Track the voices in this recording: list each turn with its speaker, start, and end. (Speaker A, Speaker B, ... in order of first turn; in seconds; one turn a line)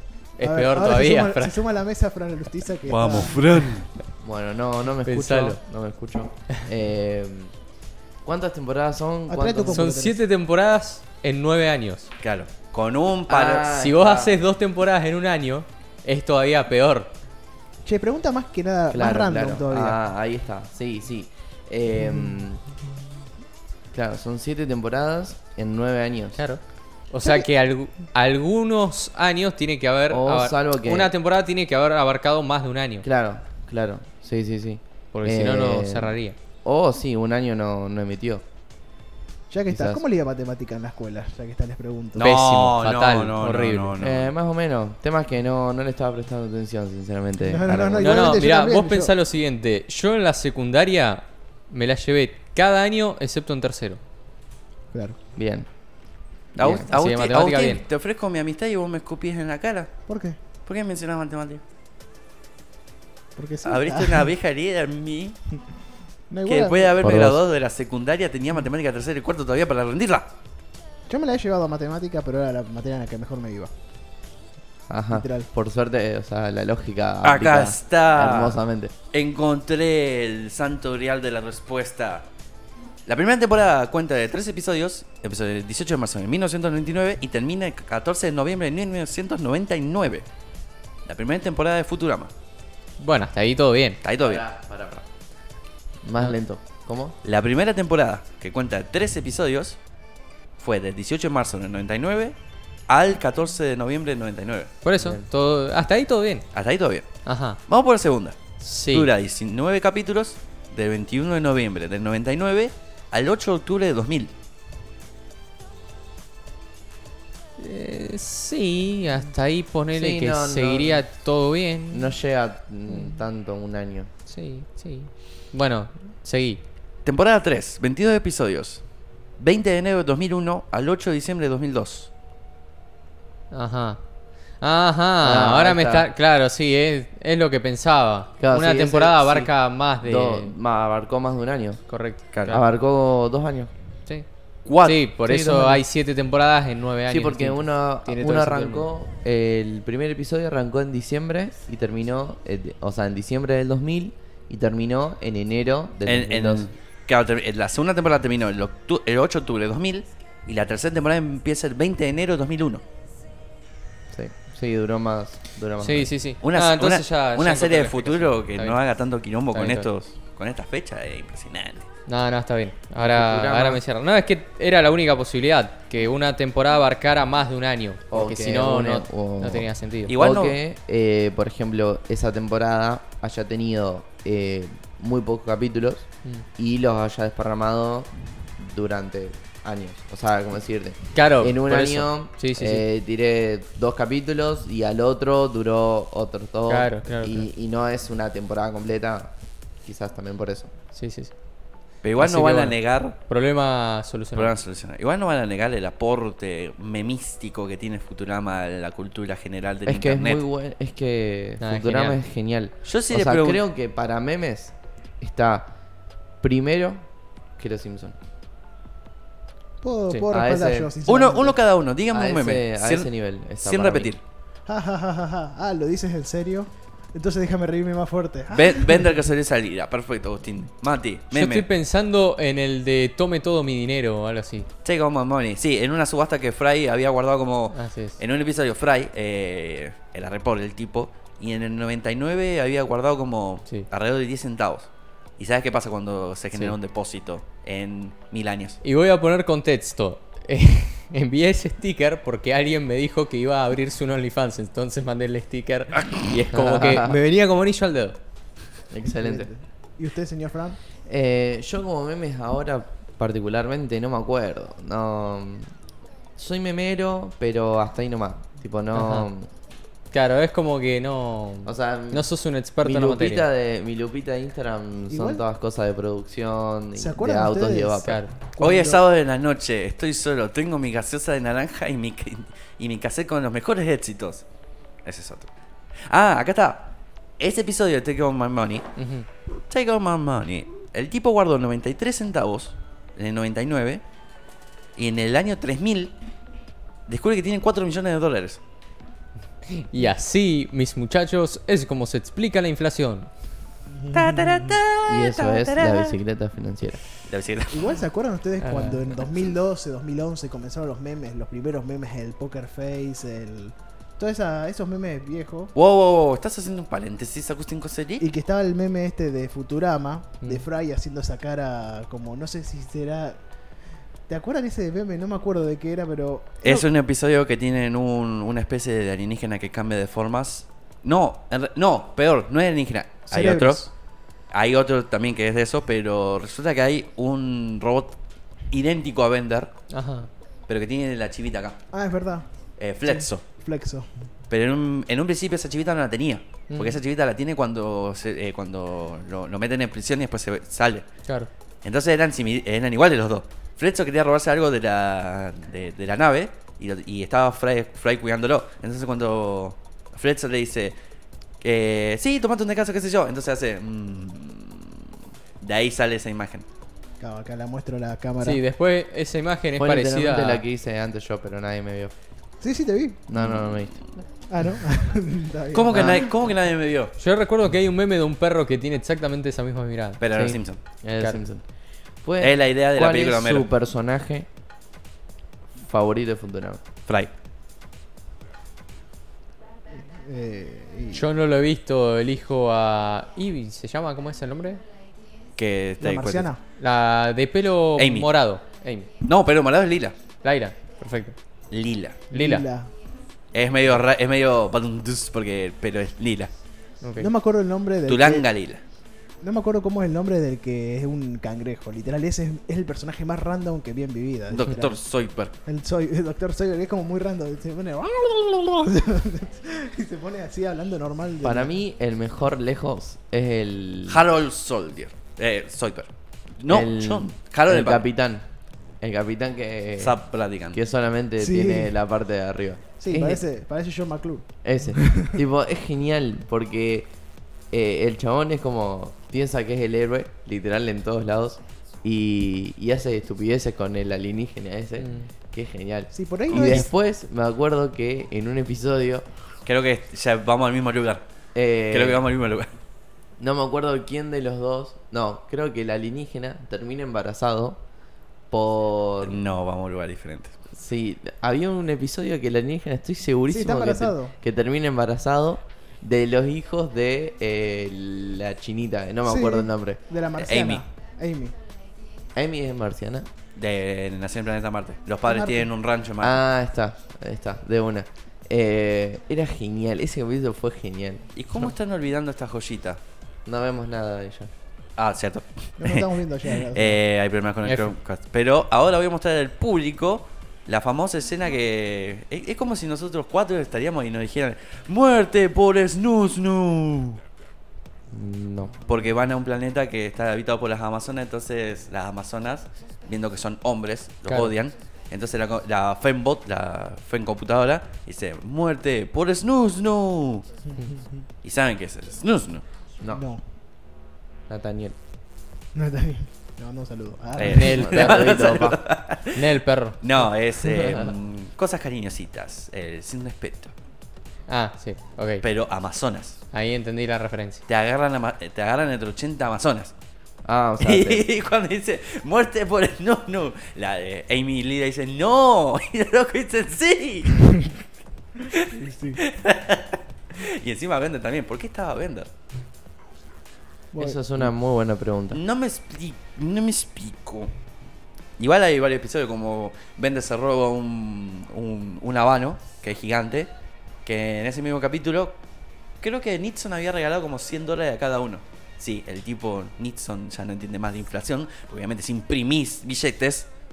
Speaker A: 0.4-1.6
Speaker B: 0.4-3.4
Speaker C: 2.9-3.9
Speaker D: 4.2-7.5
Speaker A: 5.0-5.6
Speaker D: 8.2-9.9
Speaker B: 9.3-10.2
Speaker A: 9.7-12.1
Speaker C: 12.2-13.7
Speaker D: 13.3-14.4
Speaker A: 13.7-17.1
Speaker B: 17.9-20.0
Speaker D: 18.9-22.6
Speaker D: 23.9-26.4
Speaker A: 26.4-33.1
Speaker D: 30.1-31.1
Speaker D: 33.0-38.4
Speaker A: 35.1-36.4
Speaker B: 39.5-42.3
Speaker D: 39.7-40.0
Speaker C: 42.2-44.3
Speaker A: 42.2-44.0
Speaker D: 44.0-48.4
Speaker B: 47.5-49.1
Speaker A: 48.0-54.0
Speaker B: 54.9-55.2
Speaker D: 55.4-55.7
Speaker D: 56.5-56.9
Speaker C: 56.6-59.9
Speaker A: 56.7-57.8
Speaker B: 60.1-60.4
Speaker C: 60.6-61.6
Speaker B: 63.4-64.3
Speaker C: 63.6-65.4
Speaker B: 66.3-67.0
Speaker C: 66.5-70.3
Speaker D: 67.0-67.4
Speaker B: 71.1-73.7
Speaker D: 74.9-78.9
Speaker B: 75.1-75.5
Speaker C: 77.2-78.6
Speaker C: 79.1-82.3
Speaker C: 83.1-90.3
Speaker C: 91.0-92.3
Speaker A: 93.0-94.0
Speaker C: 94.0-94.4
Speaker D: 94.2-95.1
Speaker D: 96.0-97.2
Speaker C: 97.2-99.8
Speaker C: 100.6-102.4
Speaker C: 102.9-104.7
Speaker A: 104.8-106.5
Speaker D: 105.0-105.3
Speaker C: 106.5-107.1
Speaker A: 107.2-107.6
Speaker C: 107.7-114.3
Speaker A: 108.6-109.1
Speaker A: 117.6-122.1
Speaker D: 119.9-121.1
Speaker D: 121.9-124.1
Speaker A: 122.9-123.2
Speaker A: 124.3-126.6
Speaker C: 127.0-128.8
Speaker C: 129.4-132.1
Speaker A: 133.5-134.0
Speaker A: 134.6-140.6
Speaker D: 135.2-136.1
Speaker D: 138.4-141.8
Speaker A: 141.9-142.6
Speaker D: 142.5-143.7
Speaker A: 144.1-148.9
Speaker C: 144.7-145.1
Speaker D: 145.2-145.8
Speaker D: 147.1-156.7
Speaker C: 156.1-162.8
Speaker D: 164.1-166.1
Speaker A: 165.8-168.8
Speaker C: 166.4-171.8
Speaker A: 169.5-169.9
Speaker A: 172.1-180.2
Speaker D: 173.0-173.8
Speaker D: 178.1-199.3
Speaker C: 180.1-180.6
Speaker A: 191.2-192.8
Speaker A: 196.7-197.5
Speaker D: 199.8-200.7
Speaker A: 200.9-201.3
Speaker C: 202.0-203.2
Speaker A: 202.2-204.6
Speaker C: 204.3-210.4
Speaker D: 209.9-215.7
Speaker A: 211.6-212.2
Speaker C: 212.8-213.6
Speaker D: 216.4-217.0
Speaker D: 217.6-218.2
Speaker B: 219.8-221.6
Speaker D: 220.3-220.9
Speaker C: 221.1-223.1
Speaker D: 222.1-224.1
Speaker C: 223.6-224.2
Speaker B: 224.7-229.0
Speaker C: 228.5-231.7
Speaker A: 231.3-234.7
Speaker C: 234.8-248.8
Speaker A: 237.7-238.2
Speaker A: 248.8-258.2
Speaker D: 256.5-257.2
Speaker D: 258.9-259.5
Speaker B: 259.1-260.8
Speaker D: 261.1-265.7
Speaker D: 266.4-269.5
Speaker A: 268.9-269.3
Speaker A: 270.1-273.5
Speaker D: 271.6-272.3
Speaker D: 272.8-278.2
Speaker B: 275.1-275.4
Speaker B: 276.9-279.0
Speaker A: 278.0-278.3
Speaker C: 278.6-284.4
Speaker C: 285.1-285.5
Speaker C: 286.1-288.9
Speaker A: 289.0-289.3
Speaker C: 289.7-294.0
Speaker C: 295.0-296.1
Speaker C: 297.1-298.6
Speaker A: 299.7-303.3
Speaker B: 303.9-304.7
Speaker C: 304.1-306.2
Speaker D: 305.1-307.0
Speaker C: 307.3-307.9
Speaker B: 307.7-315.7
Speaker A: 308.6-309.1
Speaker C: 315.8-318.2
Speaker B: 318.2-323.4
Speaker B: 324.3-326.9
Speaker C: 326.6-333.9
Speaker B: 333.3-333.9
Speaker C: 334.5-338.2
Speaker C: 338.7-339.7
Speaker A: 339.9-340.3
Speaker C: 340.7-341.8
Speaker B: 341.9-342.5
Speaker C: 342.8-343.4
Speaker B: 343.1-344.1
Speaker C: 344.5-351.1
Speaker A: 346.7-347.0
Speaker A: 351.2-351.5
Speaker C: 351.8-361.0
Speaker C: 361.6-366.7
Speaker B: 367.2-368.6
Speaker A: 368.4-370.6
Speaker D: 369.8-372.1
Speaker B: 372.6-373.2
Speaker D: 373.3-374.0
Speaker C: 373.4-373.9
Speaker B: 374.5-376.3
Speaker C: 375.7-377.1
Speaker A: 377.2-380.6
Speaker C: 380.2-380.8
Speaker D: 380.4-381.7
Speaker A: 381.1-381.4
Speaker D: 382.2-384.5
Speaker C: 382.4-383.7
Speaker D: 385.8-386.8
Speaker B: 389.9-391.3
Speaker A: 391.1-394.8
Speaker C: 395.6-396.5
Speaker B: 396.0-396.6
Speaker A: 396.8-399.2
Speaker C: 398.0-398.3
Speaker C: 399.2-400.2
Speaker A: 400.4-401.4
Speaker C: 401.7-402.2
Speaker A: 402.3-402.7
Speaker B: 402.3-402.9
Speaker C: 403.5-406.5
Speaker A: 407.0-407.3
Speaker B: 407.2-408.5
Speaker C: 408.1-408.8
Speaker B: 409.4-415.0
Speaker C: 414.5-415.5
Speaker B: 415.6-421.7
Speaker D: 421.4-424.2
Speaker C: 424.1-428.1
Speaker D: 426.7-428.5
Speaker D: 429.0-433.5
Speaker C: 430.0-430.8
Speaker B: 431.4-432.0
Speaker B: 433.0-435.4
Speaker D: 434.6-437.1
Speaker D: 437.7-449.3
Speaker A: 445.0-445.3
Speaker B: 446.1-446.9
Speaker C: 449.7-451.2
Speaker D: 451.5-452.2
Speaker C: 451.9-452.7
Speaker D: 453.4-457.8
Speaker D: 458.5-459.4
Speaker C: 459.2-460.6
Speaker D: 460.7-470.0
Speaker B: 463.5-464.4
Speaker B: 469.2-471.5
Speaker C: 470.4-470.8
Speaker D: 472.3-473.3
Speaker C: 473.6-476.4
Speaker B: 475.2-475.7
Speaker D: 476.2-481.3
Speaker C: 481.4-483.0
Speaker D: 483.4-484.5
Speaker C: 485.0-497.2
Speaker B: 485.8-487.0
Speaker A: 487.6-487.9
Speaker D: 498.1-498.8
Speaker C: 498.9-510.5
Speaker A: 504.3-504.6
Speaker C: 511.4-512.6
Speaker D: 513.0-513.3
Speaker B: 513.1-513.4
Speaker D: 514.5-515.0
Speaker B: 515.8-517.8
Speaker C: 517.4-519.5
Speaker A: 517.4-520.0
Speaker D: 517.5-518.8
Speaker C: 520.0-523.7
Speaker D: 520.7-521.1
Speaker A: 524.5-525.5
Speaker C: 525.4-526.4
Speaker A: 526.5-527.6
Speaker C: 527.7-529.9
Speaker D: 530.5-531.3
Speaker C: 530.8-537.7
Speaker B: 538.7-539.2
Speaker C: 539.2-542.3
Speaker B: 543.9-544.2
Speaker D: 544.0-545.4
Speaker C: 545.3-547.5
Speaker C: 548.4-553.5
Speaker C: 554.0-555.4
Speaker C: 556.0-563.5